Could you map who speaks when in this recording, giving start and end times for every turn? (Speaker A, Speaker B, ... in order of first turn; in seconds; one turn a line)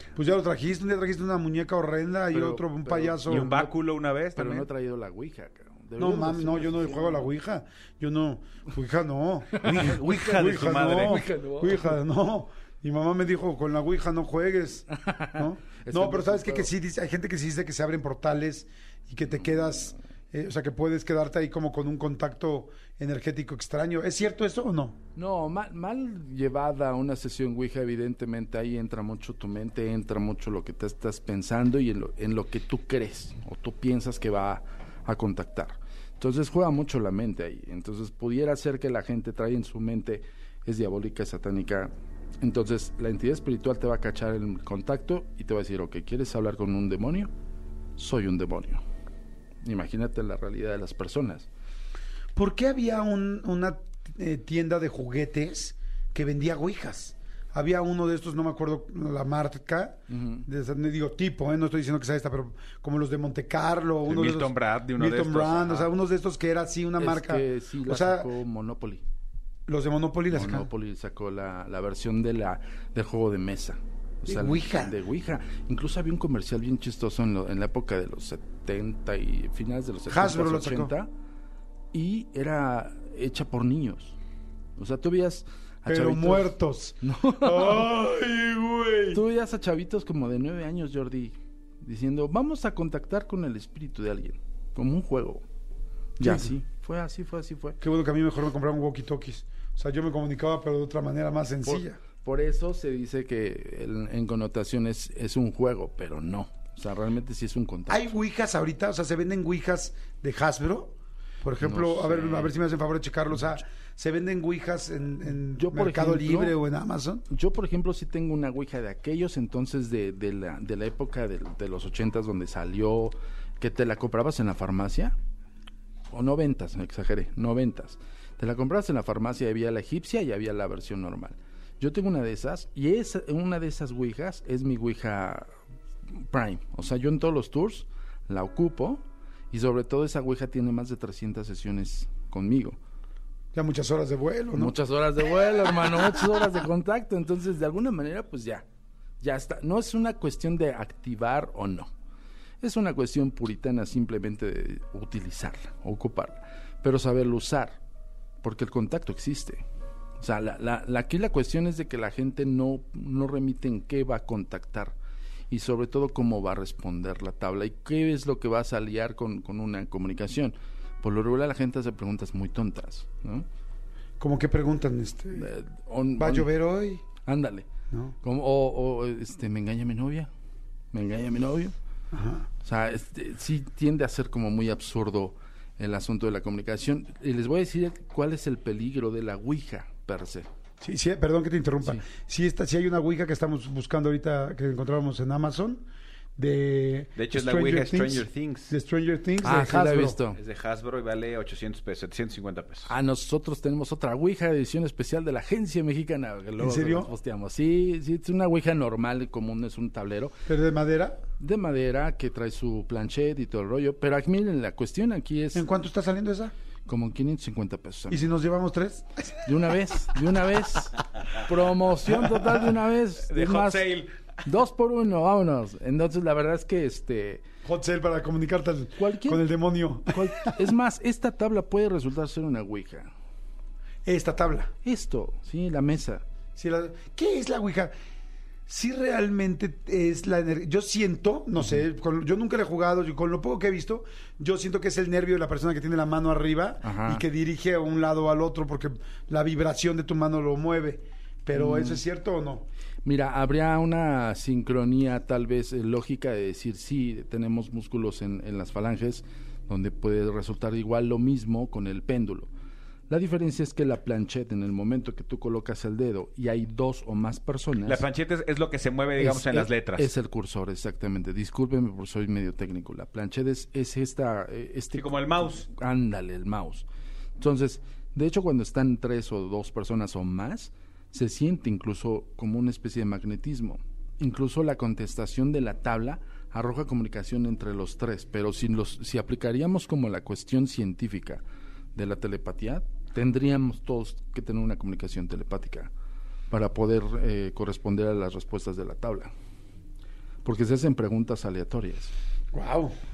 Speaker A: 0.2-3.5
Speaker B: 2.3-3.8
Speaker C: 3.2-4.7
Speaker B: 4.3-7.3
Speaker A: 6.0-25.0
Speaker B: 9.5-12.0
Speaker C: 9.6-11.3
Speaker B: 15.0-16.7
Speaker B: 25.2-47.3
Speaker B: 48.0-48.8
Speaker B: 49.6-51.5
Speaker A: 52.4-68.3
Speaker B: 60.1-60.5
Speaker C: 64.1-65.9
Speaker B: 67.0-69.0
Speaker A: 69.7-70.7
Speaker B: 70.3-81.1
Speaker A: 74.3-75.0
Speaker A: 80.1-80.9
Speaker B: 81.9-84.2
Speaker B: 84.8-88.0
Speaker A: 85.9-89.2
Speaker B: 89.1-95.4
Speaker B: 96.2-97.8
Speaker A: 96.2-96.5
Speaker A: 97.8-102.0
Speaker B: 101.6-108.1
Speaker A: 107.9-117.2
Speaker B: 111.6-112.6
Speaker B: 115.5-116.5
Speaker B: 117.3-125.2
Speaker B: 126.1-135.5
Speaker B: 136.1-142.8
Speaker A: 143.5-144.8
Speaker B: 144.5-148.7
Speaker B: 149.2-151.9
Speaker B: 152.6-157.8
Speaker B: 158.4-159.7
Speaker B: 160.2-165.0
Speaker B: 165.5-173.5
Speaker A: 174.2-175.5
Speaker B: 175.3-176.5
Speaker A: 176.2-177.0
Speaker B: 177.2-177.7
Speaker B: 178.2-180.3
Speaker B: 180.9-181.8
Speaker A: 182.1-182.5
Speaker B: 182.6-190.5
Speaker A: 190.8-200.2
Speaker C: 197.2-198.8
Speaker B: 199.4-200.4
Speaker C: 200.3-202.9
Speaker B: 202.9-210.4
Speaker A: 206.6-207.1
Speaker A: 210.5-211.2
Speaker B: 211.4-215.7
Speaker A: 215.5-216.5
Speaker B: 216.9-218.3
Speaker A: 218.1-219.6
Speaker B: 219.4-227.4
Speaker A: 222.1-222.5
Speaker C: 223.3-224.2
Speaker A: 227.6-230.7
Speaker B: 229.0-229.5
Speaker B: 230.1-233.1
Speaker A: 234.1-234.7
Speaker B: 234.8-236.2
Speaker A: 236.6-237.9
Speaker A: 238.7-252.7
Speaker B: 246.8-247.2
Speaker B: 251.5-252.0
Speaker B: 253.0-262.5
Speaker B: 263.1-268.0
Speaker C: 267.9-270.1
Speaker B: 269.2-276.9
Speaker C: 274.9-275.7
Speaker B: 277.4-291.4
Speaker B: 291.9-295.9
Speaker B: 296.5-299.3
Speaker B: 300.4-302.1
Speaker A: 302.5-302.9